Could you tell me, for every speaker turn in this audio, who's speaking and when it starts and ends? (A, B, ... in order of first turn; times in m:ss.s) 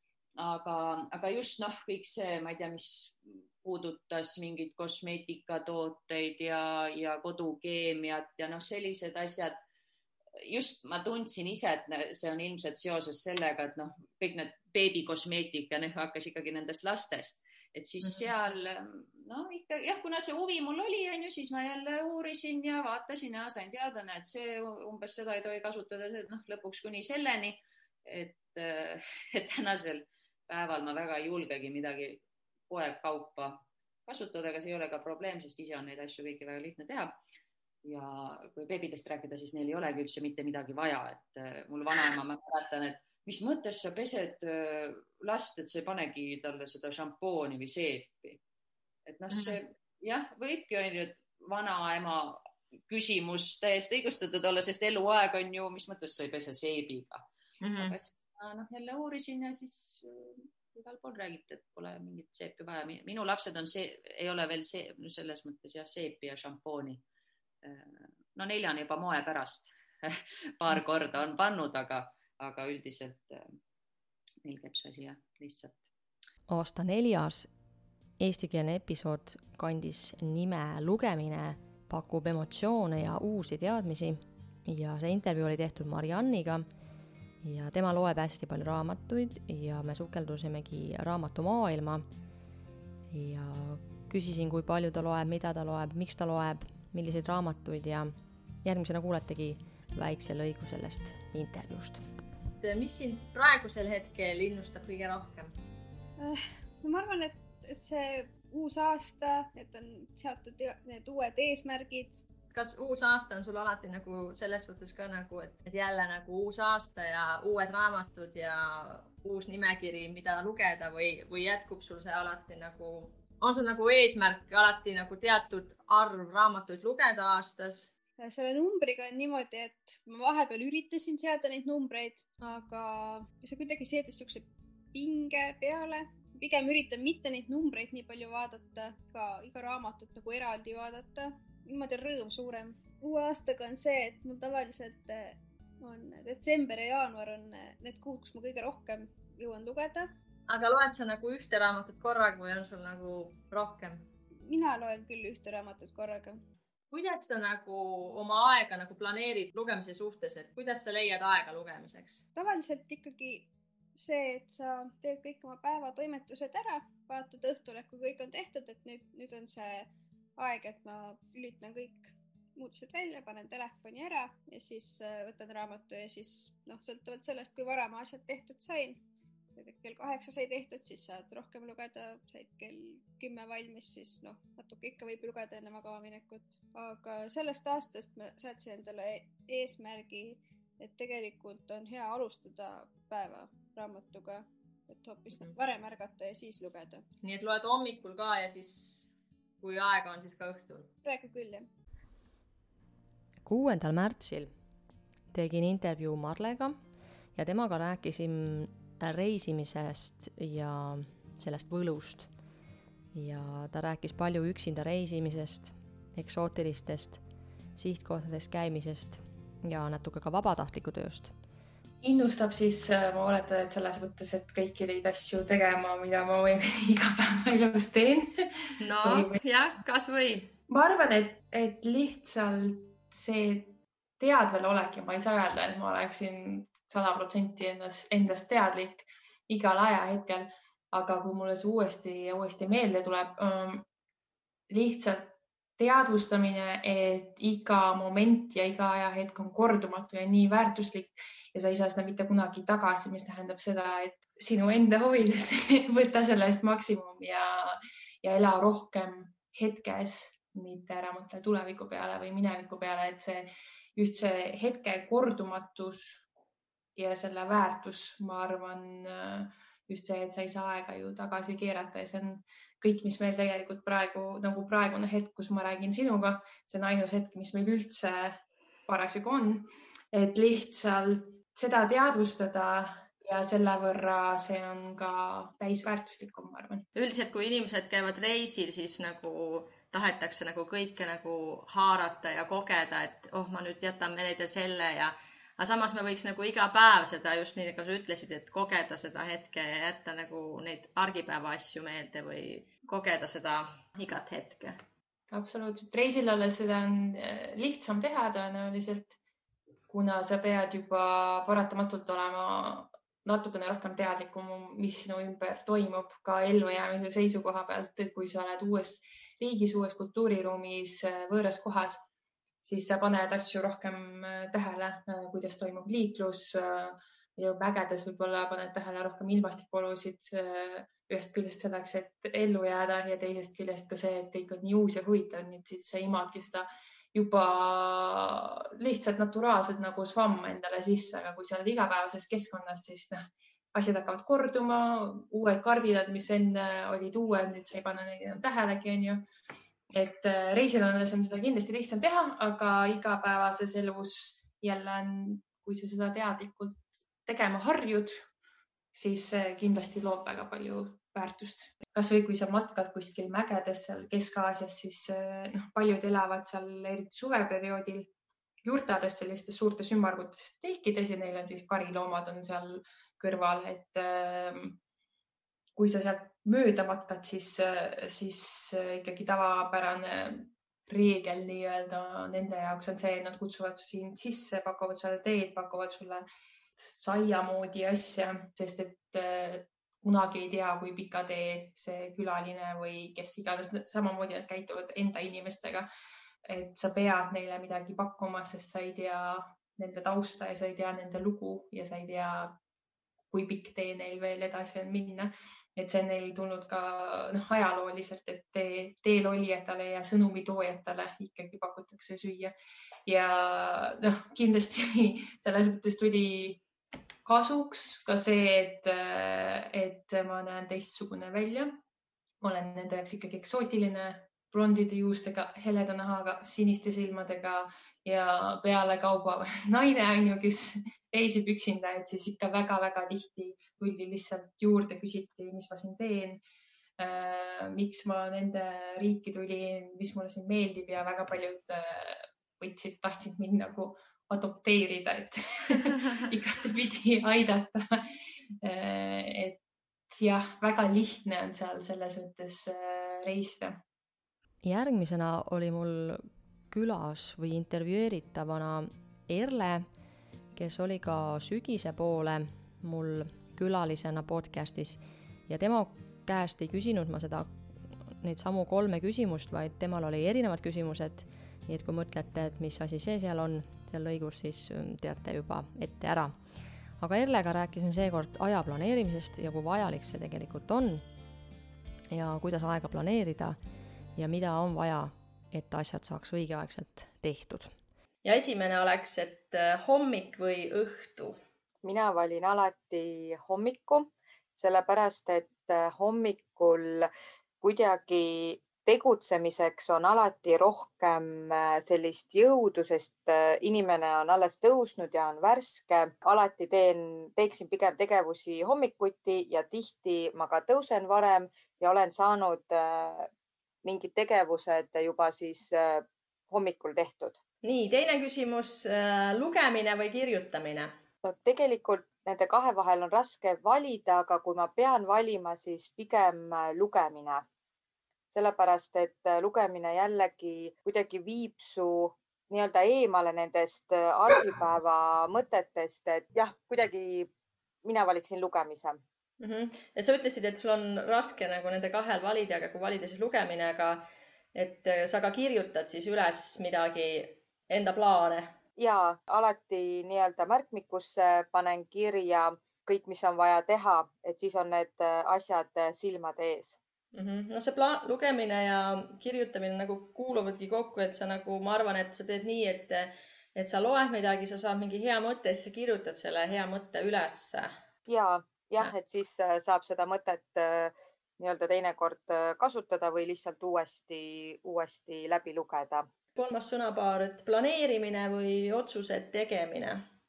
0:00.4-0:09.6 A
0:10.4-0:37.2 A
0:37.8-0:48.4 A
0:49.1-1:07.0 A
0:49.3-0:49.6 B
0:57.6-0:58.0 B
1:07.6-1:13.6 A
1:14.4-1:15.8 A
1:16.5-1:17.5 C
1:18.2-1:26.7 C
1:27.4-1:32.1 C
1:33.1-1:42.0 C
1:42.6-1:45.5 B
1:46.2-1:52.2 D
1:52.5-2:07.9 B
2:08.2-2:30.1 D
2:30.5-2:34.1 B
2:34.5-2:36.4 D
2:36.9-2:42.2 B
2:42.4-2:59.0 D
2:59.6-3:17.0 D
3:17.2-3:19.1 B
3:19.6-3:20.9 B
3:21.0-3:21.7 D
3:23.4-3:24.5 C
3:25.3-3:26.8 C
3:27.4-3:32.3 C
3:33.1-3:37.2 C
3:37.8-3:41.3 C
3:42.0-3:49.4 E
3:48.8-3:50.5 B
3:50.7-4:03.9 E
4:04.7-4:26.2 E
4:27.0-4:46.9 E
4:47.0-5:04.8 B
5:05.3-5:09.2 E
5:09.9-5:22.1 E
5:22.6-5:49.3 E
5:49.9-5:58.3 E
5:58.9-6:08.1 E
6:08.6-6:14.8 E
6:15.8-6:35.9 E
6:36.4-6:42.6 E
6:43.3-6:52.6 E
6:53.1-6:56.6 E
6:57.2-7:01.8 E
7:02.4-7:16.4 E
7:17.0-7:28.1 E
7:28.6-7:33.8 E
7:34.6-7:39.9 C
7:40.5-7:47.5 C
7:48.2-7:56.4 C
7:57.0-8:01.0 C
8:02.1-8:03.6 C
8:04.2-8:07.7 C
8:08.2-8:11.4 B
8:11.8-8:17.1 F
8:17.6-8:33.3 F
8:33.8-8:37.4 F
8:37.6-8:40.9 B
8:41.2-8:47.4 F
8:48.3-8:57.3 F
8:57.8-8:59.0 F
8:59.4-9:08.5 B
9:08.8-9:16.8 F
9:17.1-9:27.8 B
9:28.0-9:36.1 F
9:36.4-9:40.0 B